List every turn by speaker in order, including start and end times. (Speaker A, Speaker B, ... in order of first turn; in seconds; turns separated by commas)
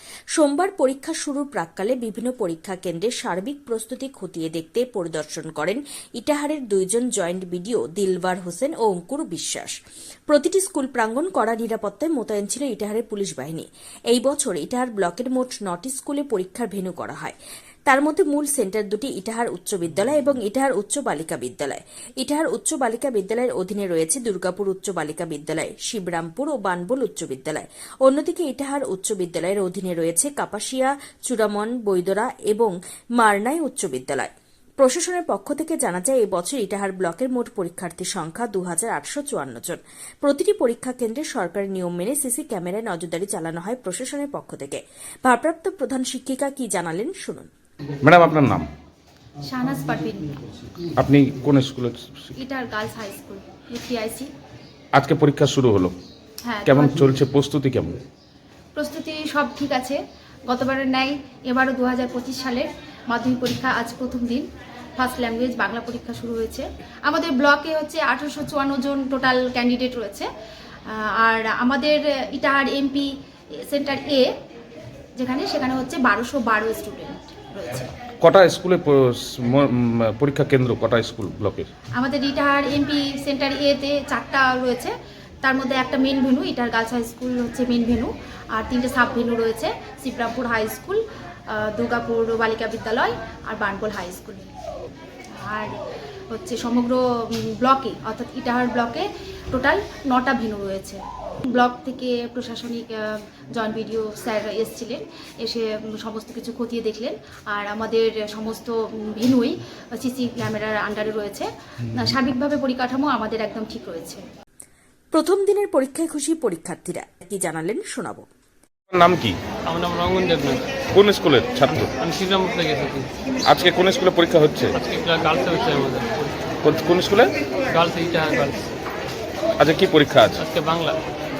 Speaker A: 0.4-9.7, Speaker A: 10.3-47.5, Speaker B: 48.0-48.7, Speaker C: 49.5-50.4, Speaker B: 51.0-52.3, Speaker C: 52.4-54.3, Speaker B: 54.9-56.0, Speaker C: 56.4-57.1, Speaker B: 56.7-58.0, Speaker C: 58.8-64.5, Speaker C: 65.0-70.3, Speaker C: 70.9-73.1, Speaker C: 73.7-74.3, Speaker C: 75.2-77.9, Speaker B: 78.2-81.7, Speaker C: 82.0-94.5, Speaker C: 95.4-95.7, Speaker C: 96.3-101.0, Speaker C: 101.5-114.2, Speaker A: 115.1-118.3, Speaker B: 118.9-119.4, Speaker D: 119.7-120.7, Speaker B: 120.9-121.9, Speaker D: 121.7-123.1, Speaker B: 123.5-124.8, Speaker D: 124.7-126.5, Speaker B: 126.6-127.3, Speaker D: 127.7-128.7, Speaker B: 129.6-130.4, Speaker D: 130.4-131.0